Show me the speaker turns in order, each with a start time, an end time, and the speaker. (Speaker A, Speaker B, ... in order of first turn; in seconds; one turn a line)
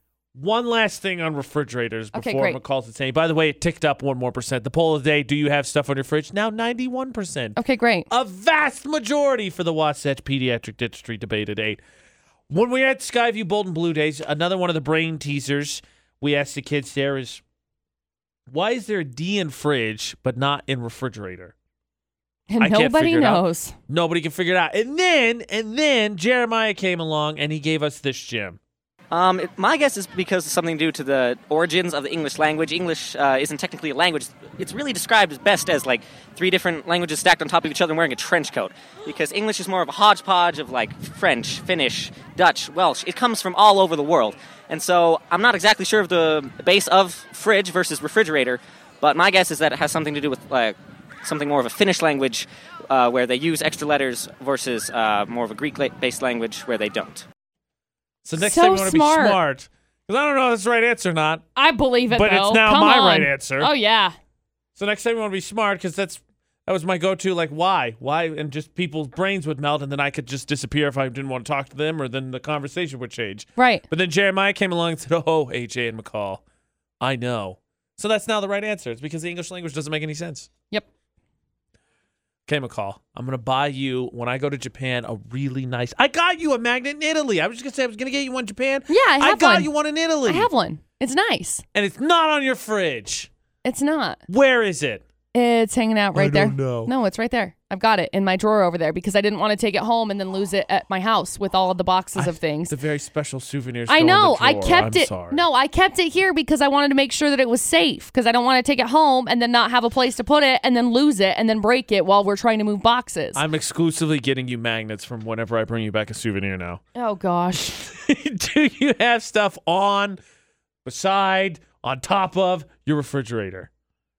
Speaker A: 0.3-7.6
Speaker B: 2.1-2.6
Speaker B: 7.5-8.1
Speaker A: 8.1-11.8
Speaker A: 12.5-17.4
Speaker A: 18.5-21.5
Speaker B: 22.5-23.8
Speaker A: 22.6-28.6
Speaker C: 29.1-57.2
Speaker A: 58.2-61.4
Speaker B: 58.4-59.4
Speaker B: 61.5-64.1
Speaker A: 62.1-63.7
Speaker A: 64.8-76.4
Speaker B: 73.6-73.8
Speaker A: 77.0-80.5
Speaker A: 82.5-90.5
Speaker B: 88.9-89.7
Speaker B: 90.2-91.6
Speaker A: 91.7-93.3
Speaker B: 93.6-94.2
Speaker A: 94.3-95.0
Speaker B: 95.3-102.8
Speaker A: 96.1-96.9
Speaker A: 102.1-105.4
Speaker B: 103.9-113.4
Speaker A: 113.3-116.8
Speaker B: 116.9-117.8
Speaker A: 117.7-120.2
Speaker A: 120.8-123.7